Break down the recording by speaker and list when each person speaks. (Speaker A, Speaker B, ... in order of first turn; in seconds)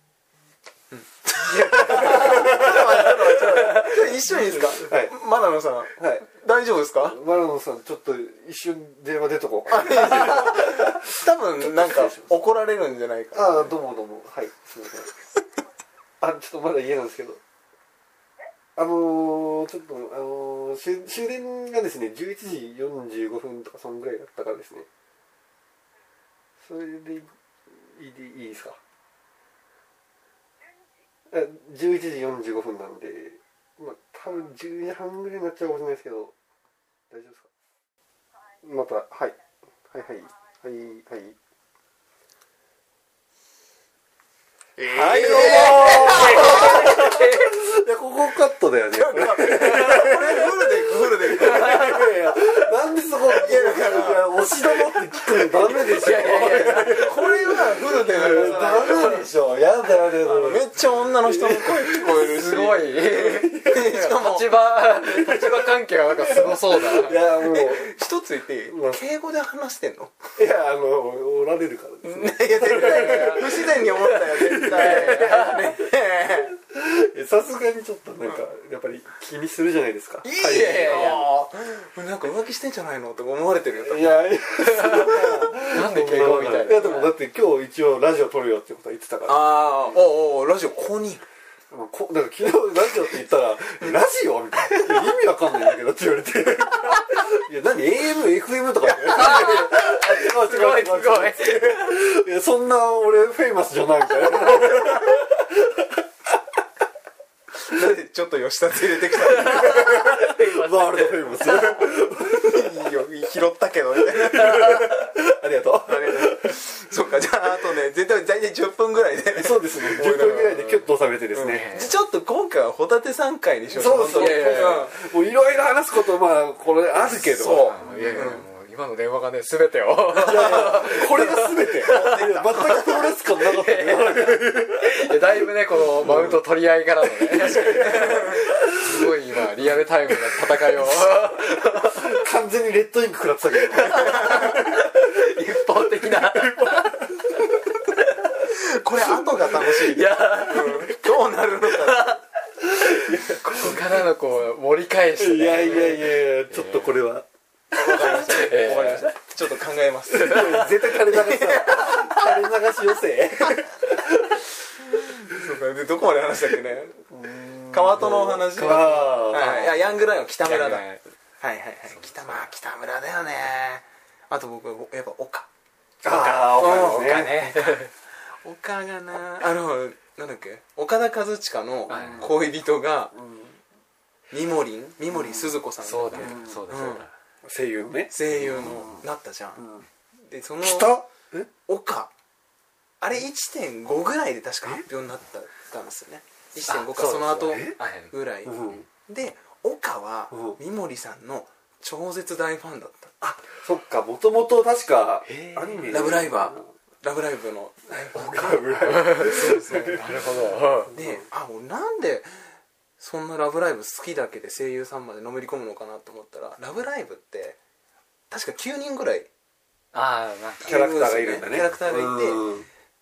Speaker A: 0.9-7.2, 9.7-13.7, 44.8-47.1, 48.9-52.1, 53.2-54.8, 56.0-59.3, 60.2-64.7, 67.4-70.2, 72.0-76.5, 80.2-84.2, 89.3-91.2, 107.6-110.3, 111.5-114.9, 115.8-120.8, 121.3-124.9, 127.1-128.4, 130.1-131.1, 131.8-132.8, 137.5-138.4, 143.9-144.6, 148.4-152.2, 157.7-162.3, 165.0-167.0, 167.7-170.9, 171.4-175.5, 176.1-183.2, 184.3-187.1, 188.1-189.7, 190.3-191.0, 191.7-192.1, 193.0-203.2, 205.9-210.2, 210.9-212.5, 213.0-217.6, 218.3-219.3, 220.6-222.4
Speaker B: 1.7-2.9, 4.7-5.1, 6.0-6.2, 7.0-12.3, 13.3-15.1, 16.2-17.4, 18.8-24.9, 26.6-28.8, 31.3-36.3, 37.1-37.5, 38.6-39.4, 39.9-41.4, 44.9-62.2, 65.0-67.9, 68.7-69.0, 70.4-75.6, 76.5-81.2, 83.8-89.5, 91.7-106.0, 109.5-112.6, 114.2-116.6, 119.3-121.7, 123.7-128.4, 130.2-135.1, 135.8-136.4, 141.8-145.2, 146.3-147.0, 152.8-154.0, 155.2-157.3, 160.1-164.5, 167.1-169.7, 176.0-177.4, 181.9-182.3, 183.2-183.6, 185.1-185.6, 186.1-186.6, 187.4-189.0, 189.6-189.8, 190.6-191.5, 197.4-197.8, 198.5-198.8, 200.3-200.6, 203.2-206.7, 207.9-211.2, 220.6-222.7
Speaker C: 1.9-2.3, 45.3-47.5, 51.6-52.0, 55.9-57.3, 58.1-59.3, 62.1-67.3, 72.7-73.4, 74.5-75.7, 80.3-81.3, 84.7-87.2, 99.0-102.0, 109.4-111.3, 121.4-121.9, 123.9-124.9, 127.5-142.2, 143.7-148.3, 149.4-151.0, 151.7-152.2, 152.8-156.9, 157.8-159.1, 168.6-169.7, 170.4-171.0, 171.9-172.5, 176.1-177.9, 181.9-182.3, 185.8-187.1, 196.7-198.1, 205.3-206.2, 208.9-210.9, 219.9-220.8